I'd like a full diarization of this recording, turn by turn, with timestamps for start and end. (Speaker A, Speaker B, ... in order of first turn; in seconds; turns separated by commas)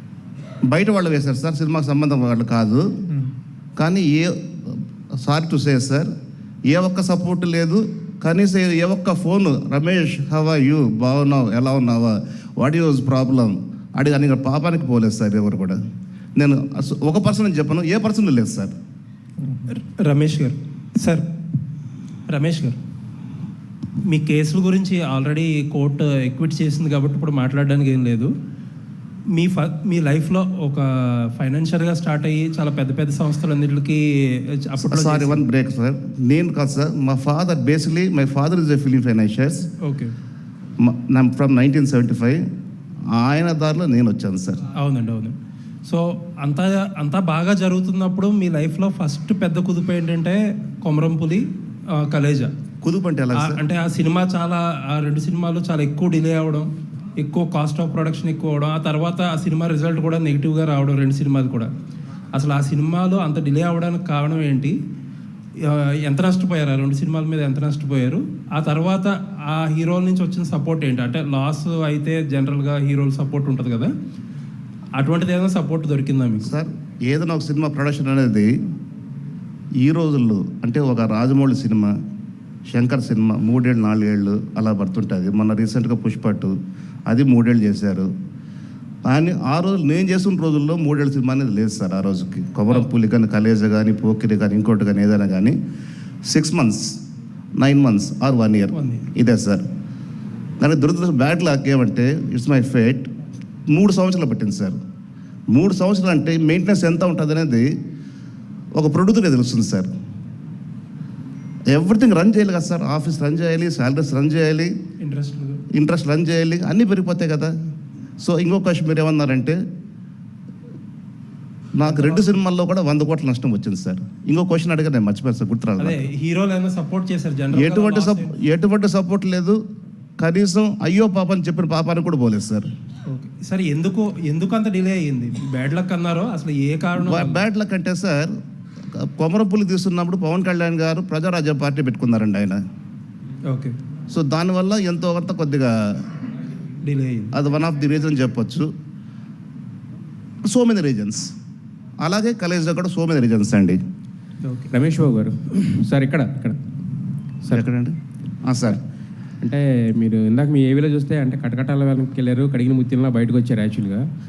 Speaker A: 0.7-2.9, Speaker A: 3.8-6.1, Speaker A: 6.7-15.8, Speaker A: 16.4-18.7, Speaker B: 19.7-21.3, Speaker B: 22.3-22.8, Speaker B: 24.0-28.3, Speaker B: 29.3-35.4, Speaker A: 34.9-39.7, Speaker B: 39.8-40.1, Speaker A: 40.8-42.4, Speaker A: 43.1-44.6, Speaker B: 44.8-52.5, Speaker A: 52.8-53.6, Speaker B: 53.4-61.7, Speaker B: 62.3-64.8, Speaker B: 65.6-73.9, Speaker B: 75.0-76.5, Speaker A: 76.4-78.5, Speaker A: 79.8-81.9, Speaker A: 82.7-86.6, Speaker A: 87.1-88.1, Speaker A: 89.1-95.6, Speaker A: 96.2-97.0, Speaker A: 97.6-99.6, Speaker B: 98.7-99.1, Speaker A: 100.6-103.1, Speaker A: 103.7-104.8, Speaker A: 105.5-107.7, Speaker A: 108.7-109.9, Speaker A: 111.7-114.7, Speaker B: 115.0-115.6, Speaker A: 115.7-117.5, Speaker A: 118.2-119.6, Speaker A: 121.8-126.0, Speaker B: 121.8-122.4, Speaker B: 125.8-128.3, Speaker A: 127.5-129.6, Speaker A: 130.2-132.7, Speaker B: 133.1-137.4, Speaker A: 137.0-138.3, Speaker A: 138.9-142.6, Speaker B: 143.5-143.8, Speaker A: 144.1-146.0, Speaker B: 146.8-147.3, Speaker A: 147.3-148.7, Speaker A: 150.4-151.3, Speaker A: 152.0-153.8, Speaker B: 154.4-154.7, Speaker C: 154.7-156.6, Speaker A: 157.5-158.8, Speaker C: 159.4-164.0